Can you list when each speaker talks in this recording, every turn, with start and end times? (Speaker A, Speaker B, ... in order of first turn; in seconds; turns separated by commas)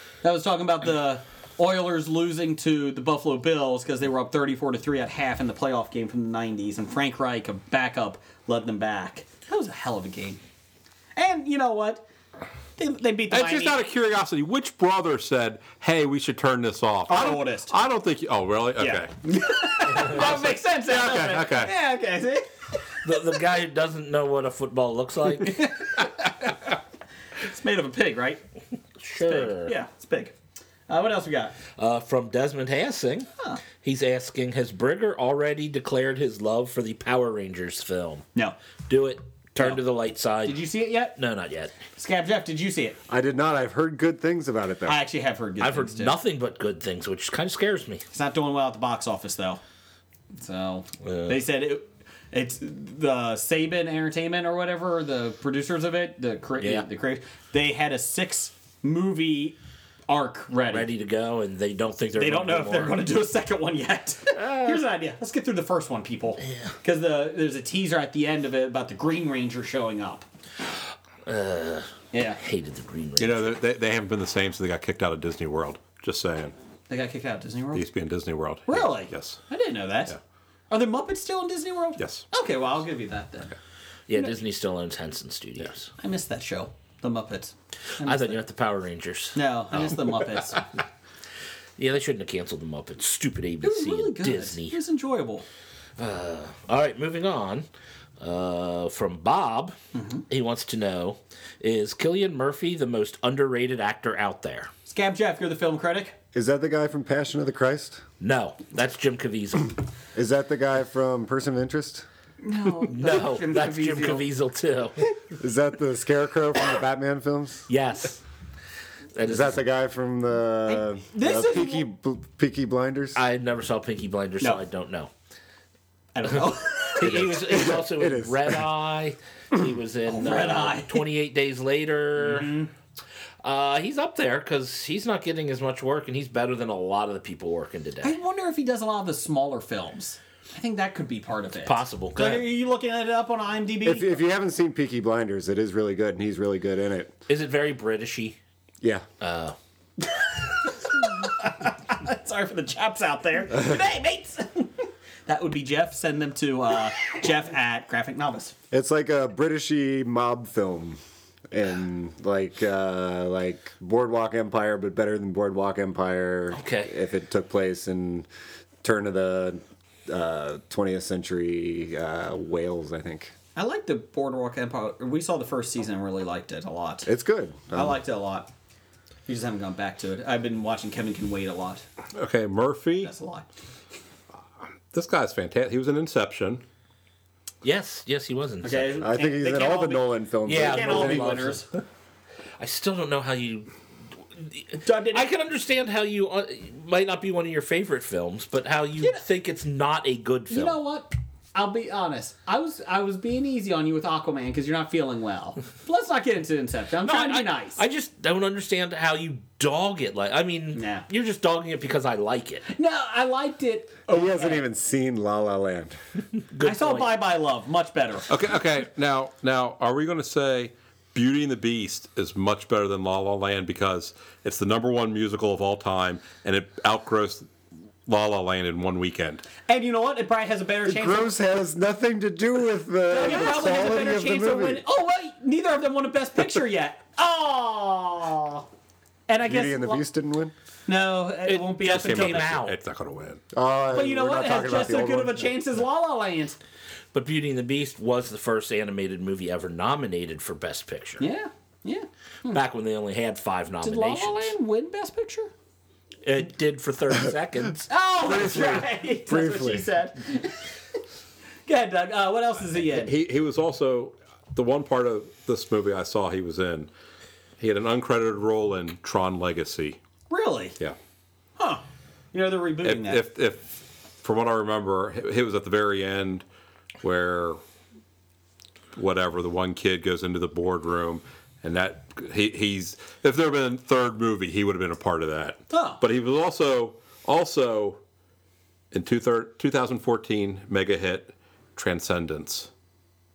Speaker A: 0.2-10.4, Speaker A: 11.2-12.0, Speaker A: 12.8-13.8, Speaker B: 13.3-19.1, Speaker A: 17.1-17.7, Speaker A: 18.8-22.5, Speaker B: 20.0-21.7, Speaker C: 23.0-25.7, Speaker A: 25.4-26.5, Speaker A: 27.4-28.4, Speaker C: 29.0-29.7, Speaker A: 29.2-30.3, Speaker A: 30.9-31.6, Speaker C: 31.8-33.3, Speaker C: 33.8-38.2, Speaker C: 38.9-41.7, Speaker A: 40.4-41.1, Speaker A: 42.0-43.0, Speaker D: 43.1-45.0, Speaker A: 44.9-46.1, Speaker C: 45.6-48.0, Speaker A: 48.1-49.6, Speaker A: 50.3-59.6, Speaker C: 51.0-51.4, Speaker C: 56.6-56.8, Speaker A: 60.1-60.9, Speaker C: 60.7-63.0, Speaker A: 62.1-70.2, Speaker C: 64.4-64.8, Speaker C: 66.4-66.7, Speaker C: 71.2-73.5, Speaker A: 72.1-72.4, Speaker B: 73.2-76.5, Speaker A: 76.9-77.8, Speaker B: 77.7-79.4, Speaker A: 78.7-80.1, Speaker A: 80.7-83.5, Speaker B: 82.0-82.2, Speaker C: 84.1-85.9, Speaker A: 86.0-88.4, Speaker C: 88.0-89.4, Speaker A: 89.3-90.6, Speaker C: 91.8-94.8, Speaker A: 93.6-95.4, Speaker C: 96.0-97.7, Speaker C: 98.2-99.8, Speaker A: 99.9-100.2, Speaker C: 100.3-104.7, Speaker A: 104.9-106.2, Speaker D: 106.3-108.0, Speaker C: 108.2-109.8, Speaker D: 110.1-112.0, Speaker A: 112.4-114.2, Speaker C: 112.9-115.0, Speaker D: 115.4-117.6, Speaker C: 117.7-118.2, Speaker C: 119.2-119.6, Speaker D: 119.2-123.2, Speaker A: 120.7-121.9, Speaker C: 123.2-125.1, Speaker A: 126.1-127.3, Speaker C: 127.0-132.5, Speaker D: 127.0-128.6, Speaker A: 130.1-131.1, Speaker A: 132.2-132.7, Speaker C: 133.4-138.1, Speaker A: 138.0-144.1, Speaker C: 141.6-142.5, Speaker D: 143.8-147.1, Speaker C: 147.3-148.3, Speaker C: 149.2-149.6, Speaker A: 150.0-158.5, Speaker D: 158.7-161.0, Speaker D: 161.5-168.3, Speaker C: 166.5-166.9, Speaker D: 168.8-173.3, Speaker A: 173.6-177.1, Speaker D: 177.1-178.0, Speaker A: 177.7-178.5, Speaker A: 179.3-181.8, Speaker B: 182.2-183.1, Speaker A: 183.0-183.4, Speaker B: 184.9-186.6, Speaker C: 187.6-189.1, Speaker A: 188.6-191.7, Speaker D: 189.0-191.5, Speaker C: 190.4-191.6, Speaker C: 192.6-193.7, Speaker C: 194.3-200.8, Speaker A: 194.8-195.3, Speaker A: 200.5-207.8, Speaker C: 207.0-212.7, Speaker A: 210.7-211.0, Speaker A: 212.7-214.6, Speaker D: 214.1-215.9, Speaker C: 216.5-217.2, Speaker A: 216.6-218.3, Speaker B: 218.3-227.5, Speaker B: 228.1-229.5, Speaker A: 229.7-231.3, Speaker D: 230.8-234.8, Speaker A: 233.1-238.7, Speaker A: 239.3-240.0, Speaker D: 239.4-240.5, Speaker A: 240.9-242.5, Speaker C: 241.4-242.8, Speaker B: 241.9-243.4, Speaker D: 243.5-245.5, Speaker A: 243.9-246.6, Speaker C: 247.1-251.2, Speaker A: 251.2-252.6, Speaker C: 252.5-254.5, Speaker A: 253.8-255.5, Speaker C: 256.2-257.9, Speaker A: 257.9-260.6, Speaker D: 258.2-259.9, Speaker A: 261.6-263.1, Speaker B: 262.9-266.9, Speaker B: 267.6-270.0, Speaker A: 270.3-270.8, Speaker A: 271.6-273.2, Speaker B: 272.8-276.4, Speaker B: 277.0-277.6, Speaker B: 278.9-288.0, Speaker A: 285.7-286.0, Speaker B: 288.9-292.7